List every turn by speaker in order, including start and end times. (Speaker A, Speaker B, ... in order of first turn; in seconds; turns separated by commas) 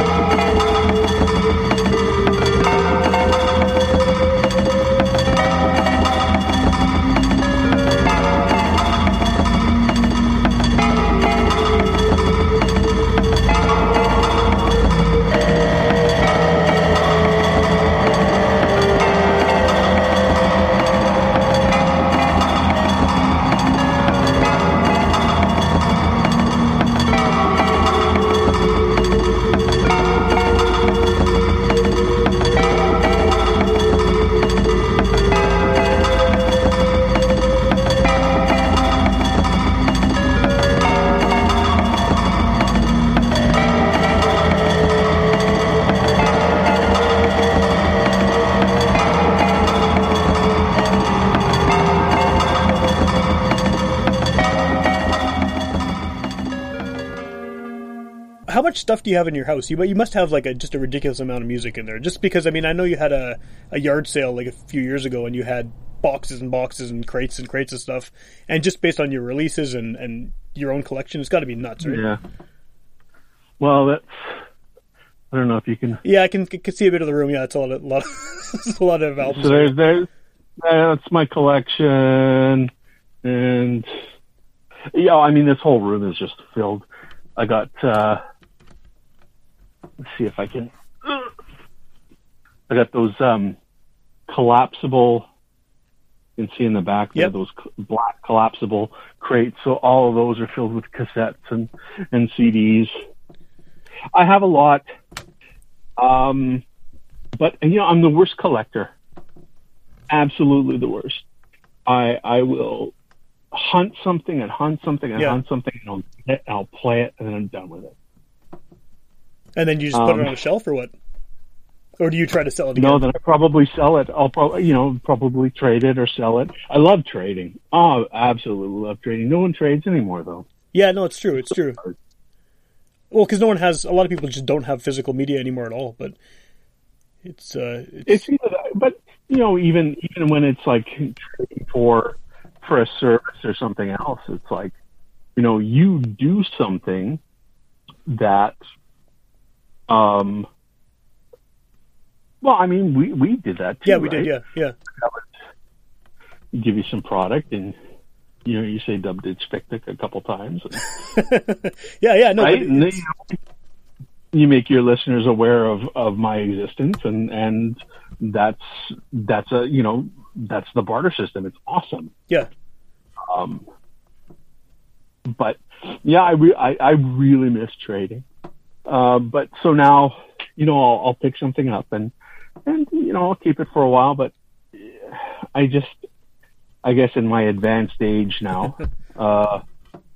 Speaker A: 58.5-72.0, Speaker B: 71.8-72.2, Speaker B: 73.6-74.4, Speaker B: 75.3-76.0, Speaker A: 76.0-79.8, Speaker B: 79.2-82.7, Speaker B: 83.2-83.9, Speaker B: 84.9-88.2, Speaker B: 90.0-91.3, Speaker B: 92.7-93.6, Speaker B: 94.3-95.3, Speaker B: 96.4-102.9, Speaker B: 104.1-104.8, Speaker B: 106.0-106.6, Speaker B: 107.4-108.9, Speaker B: 110.1-111.2, Speaker B: 111.8-112.9, Speaker B: 113.5-117.9, Speaker A: 119.5-120.9, Speaker B: 119.9-120.4, Speaker A: 122.0-123.0, Speaker B: 122.8-130.4, Speaker A: 130.7-131.8, Speaker A: 133.1-136.2, Speaker A: 137.2-138.2, Speaker B: 138.1-144.8, Speaker B: 145.3-147.2, Speaker B: 148.1-148.6, Speaker B: 149.9-150.5, Speaker B: 152.4-154.3, Speaker A: 153.8-154.7, Speaker B: 155.0-155.3, Speaker B: 156.5-157.8, Speaker B: 158.4-161.0, Speaker A: 161.1-163.0, Speaker B: 162.4-163.3, Speaker B: 164.3-172.1, Speaker B: 173.2-173.7, Speaker B: 175.2-178.2, Speaker B: 178.8-182.1, Speaker B: 182.7-186.0, Speaker B: 186.8-189.6